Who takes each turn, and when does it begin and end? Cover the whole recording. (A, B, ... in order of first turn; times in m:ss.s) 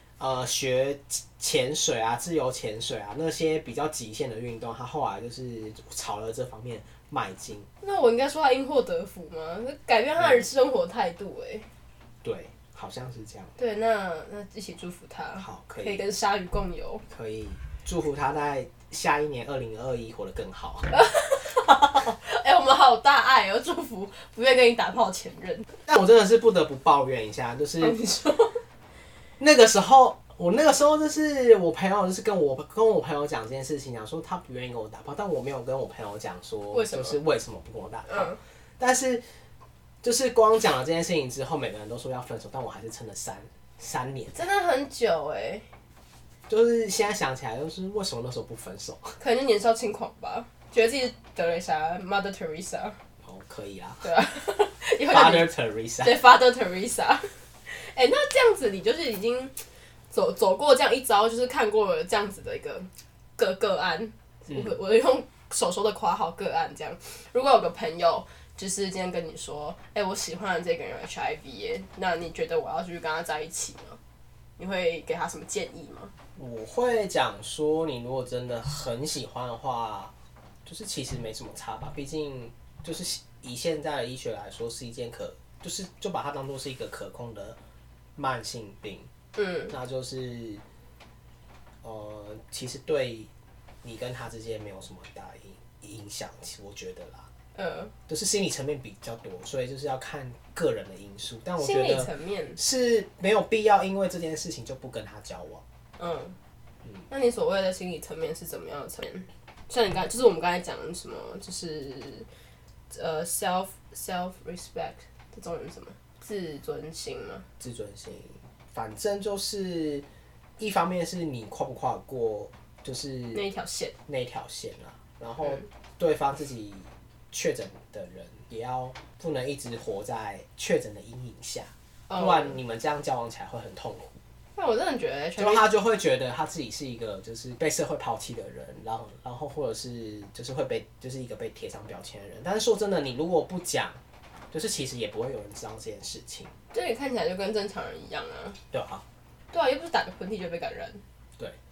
0:00.2-0:07.7 A
0:07.8-0:11.7 B
0:12.2-0:13.5 A
0:13.6-0:17.0 B
0:15.4-0:16.0 A
0:17.1-0:20.9 A
0:20.9-0:25.7 B
0:25.9-0:28.0 A
0:27.8-0:28.6 B
0:29.4-0:39.2 A
0:36.7-0:37.2 B
0:38.1-0:38.4 B
0:40.0-0:44.4 A
0:44.3-0:45.6 B
0:46.5-0:49.2 A
0:49.2-0:53.0 B
0:53.2-0:54.0 A
0:54.0-0:55.5 B
0:55.1-0:56.2 A
0:56.0-0:59.5 B
1:00.1-1:14.0 B
1:04.5-1:04.7 A
1:14.6-1:16.1 B
1:16.4-1:20.1 A
1:20.6-1:27.6 A
1:28.2-1:29.1 A
1:29.4-1:29.7 B
1:29.7-1:30.6 A
1:31.8-1:33.3 A
1:33.8-1:37.3 A
1:37.5-1:37.9 B
1:38.1-1:45.6 A
1:41.6-1:42.6 B
1:46.0-1:46.4 B
1:47.1-1:52.3 B
1:52.9-1:57.4 B
1:57.6-2:00.0 A
2:00.6-2:03.4 A
2:03.3-2:03.9 B
2:04.1-2:14.2 A
2:05.4-2:05.7 B
2:12.1-2:12.6 B
2:14.6-2:15.6 B
2:15.4-2:24.0 A
2:24.5-2:26.5 A
2:26.7-2:28.6 B
2:28.7-2:29.0 A
2:29.5-2:31.0 B